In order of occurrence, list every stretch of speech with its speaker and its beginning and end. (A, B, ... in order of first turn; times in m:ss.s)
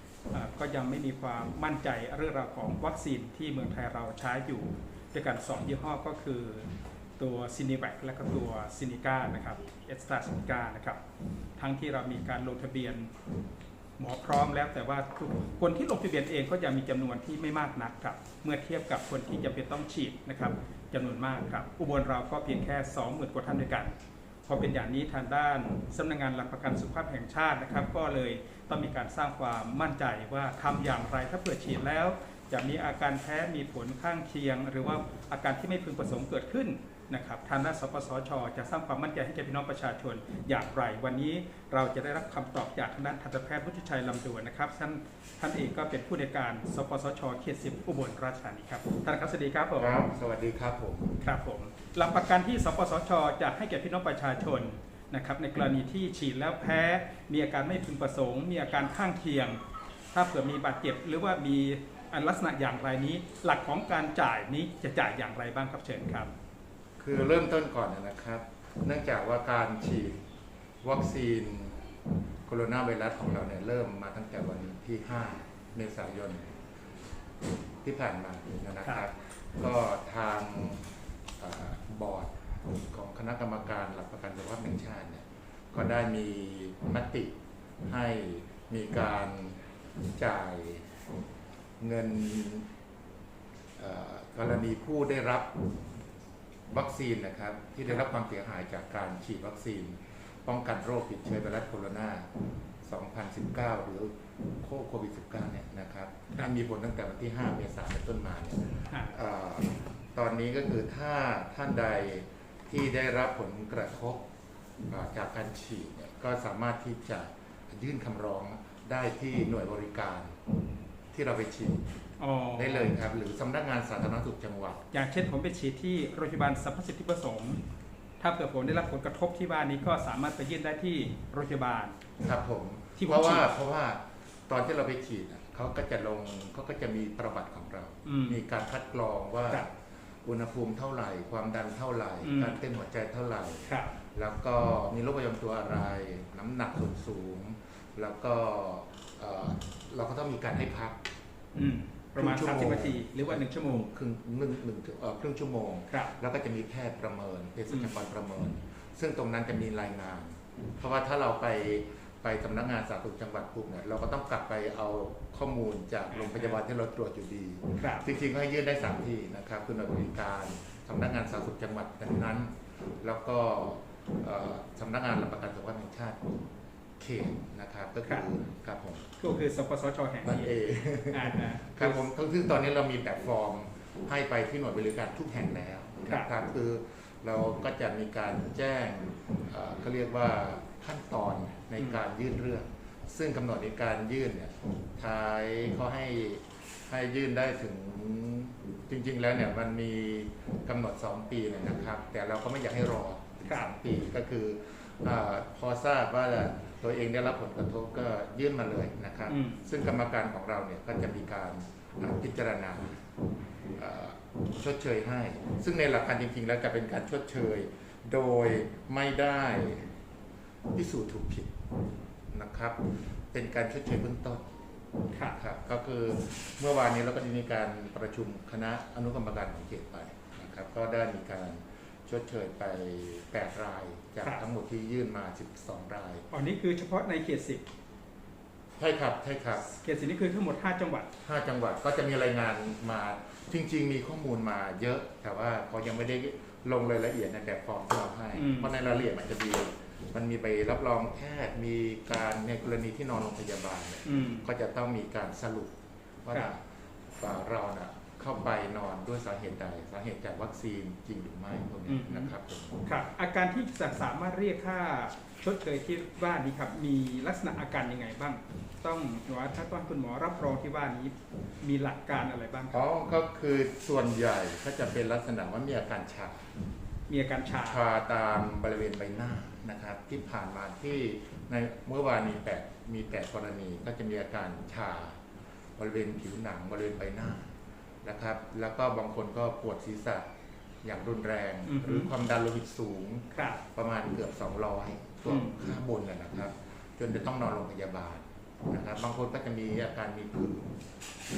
0:00.3-0:06.6 A
0:07.2-0:11.0 A
0:11.6-0:13.1 A
0:14.0-0:23.9 A
0:24.4-0:50.1 A
0:49.8-0:51.2 B
0:51.2-0:59.6 A
1:00.1-1:06.3 A
1:07.0-1:10.2 B
1:10.8-1:11.8 B
1:12.4-1:16.4 B
1:17.8-1:20.8 B
1:21.4-1:27.3 B
1:27.8-1:29.6 B
1:30.2-1:30.9 B
1:31.8-1:32.7 B
1:33.8-1:35.5 B
1:36.7-1:42.3 B
1:42.8-1:54.2 B
1:54.9-2:00.4 B
2:01.1-2:01.8 B
2:02.2-2:02.9 A
2:02.6-2:04.8 B
2:04.9-2:07.6 A
2:08.2-2:12.0 A
2:12.2-2:19.7 B
2:13.0-2:13.5 A
2:18.0-2:18.4 A
2:20.2-2:31.0 B
2:22.2-2:22.6 A
2:23.7-2:23.9 A
2:31.5-2:33.9 A
2:32.2-2:52.5 B
2:37.7-2:38.0 A
2:46.1-2:46.6 A
2:47.8-2:48.1 A
2:53.0-2:56.2 B
2:57.0-2:59.1 B
2:59.2-3:00.5 A
3:00.2-3:33.0 B
3:01.1-3:02.0 A
3:29.3-3:29.6 A
3:33.8-3:39.9 B
3:40.7-3:41.5 B
3:42.3-3:44.4 B
3:45.1-3:45.4 A
3:45.2-3:56.2 B
3:56.3-3:57.6 A
3:58.8-3:59.7 B
3:59.6-4:01.1 A
4:01.2-4:16.6 B
4:08.3-4:08.9 A
4:14.0-4:14.5 A
4:17.2-4:22.8 B
4:21.9-4:22.3 A
4:22.8-4:32.8 A
4:32.7-4:36.4 B
4:37.1-4:37.8 A
4:37.7-4:45.2 B
4:45.8-4:47.5 B
4:48.0-4:50.2 B
4:50.8-5:00.7 B
4:51.7-4:52.1 A
4:53.3-4:53.6 A
4:55.2-4:55.6 A